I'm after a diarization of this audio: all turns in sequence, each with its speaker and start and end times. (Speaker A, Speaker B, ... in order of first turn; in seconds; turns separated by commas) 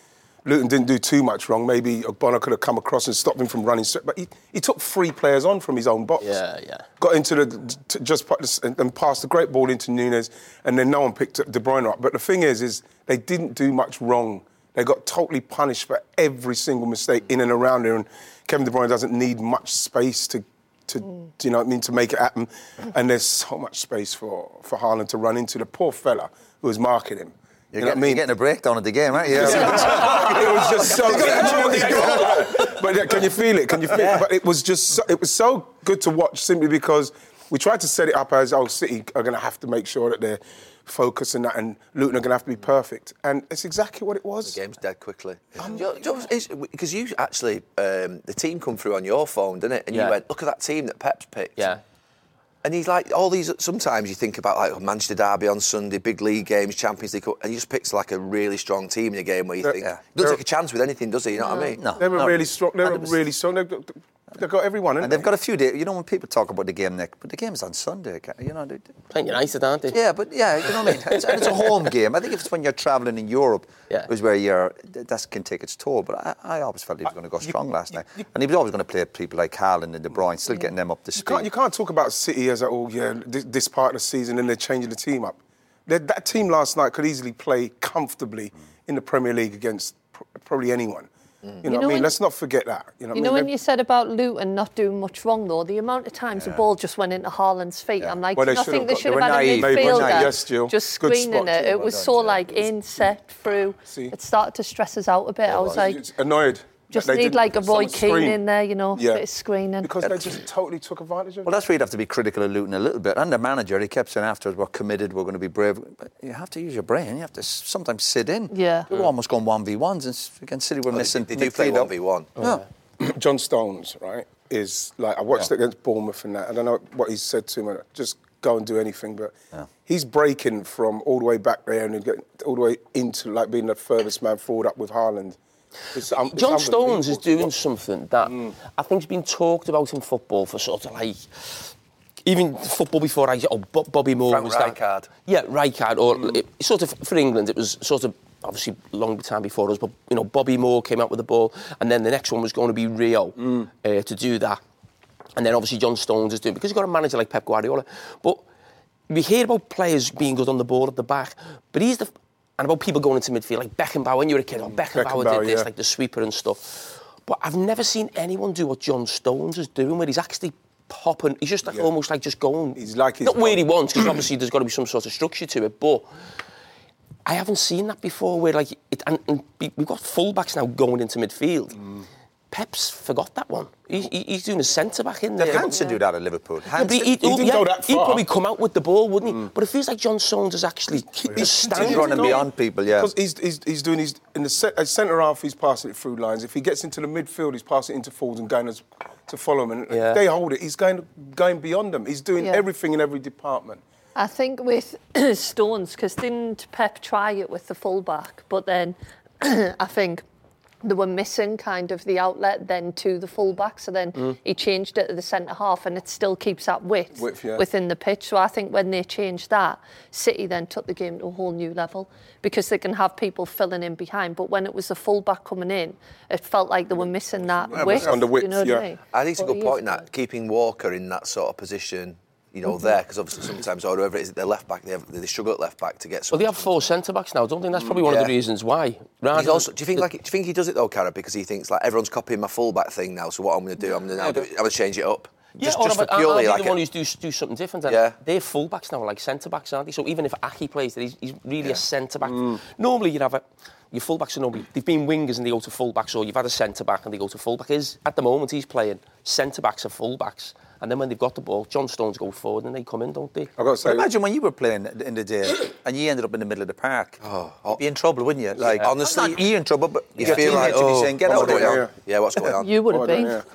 Speaker A: 0.5-6.3, Speaker B: 6.2-6.9, Speaker A: 7.0-28.2, Speaker C: 27.7-32.4, Speaker A: 29.2-44.6, Speaker B: 29.4-32.8, Speaker D: 31.1-32.1, Speaker D: 44.5-51.8, Speaker B: 49.9-50.2, Speaker D: 52.6-61.9, Speaker A: 59.6-60.4, Speaker E: 61.4-61.7, Speaker C: 61.8-63.1, Speaker A: 62.0-65.3, Speaker C: 65.0-69.0, Speaker B: 69.1-70.0, Speaker C: 69.9-81.5, Speaker B: 70.7-71.9, Speaker A: 81.2-91.1, Speaker A: 91.6-93.5, Speaker E: 91.7-92.1, Speaker E: 93.1-106.0, Speaker C: 96.4-96.6, Speaker A: 98.3-101.9, Speaker C: 98.9-100.4, Speaker C: 101.7-102.4, Speaker A: 103.9-104.1, Speaker C: 105.5-105.8, Speaker A: 105.6-108.4, Speaker E: 106.9-109.9, Speaker A: 109.0-109.2, Speaker A: 109.8-111.5, Speaker C: 111.5-122.6, Speaker E: 118.5-118.9, Speaker D: 120.9-122.3, Speaker A: 123.0-129.3, Speaker A: 129.9-135.4, Speaker A: 135.9-137.5, Speaker B: 136.3-141.7, Speaker A: 138.3-138.5, Speaker B: 142.2-154.6, Speaker D: 144.3-145.1, Speaker B: 155.4-158.4, Speaker B: 159.1-176.1, Speaker A: 164.7-165.7, Speaker A: 172.8-173.7, Speaker B: 177.3-181.8, Speaker B: 182.5-185.8, Speaker C: 185.4-187.1, Speaker B: 186.7-192.4, Speaker A: 187.2-188.2, Speaker A: 191.3-203.8, Speaker C: 191.3-193.1, Speaker B: 199.9-200.2, Speaker E: 204.2-210.2, Speaker E: 210.8-230.1, Speaker A: 217.2-217.6, Speaker A: 227.6-228.9, Speaker D: 229.1-236.9, Speaker B: 236.3-240.1, Speaker D: 239.3-246.8, Speaker B: 245.6-263.5, Speaker D: 247.9-248.2, Speaker A: 252.3-252.6, Speaker A: 263.6-264.1, Speaker C: 263.8-267.2, Speaker D: 267.2-267.8, Speaker C: 267.7-271.9, Speaker D: 268.6-269.4, Speaker D: 270.2-273.1, Speaker A: 270.2-271.9, Speaker E: 272.6-273.4, Speaker A: 272.8-273.4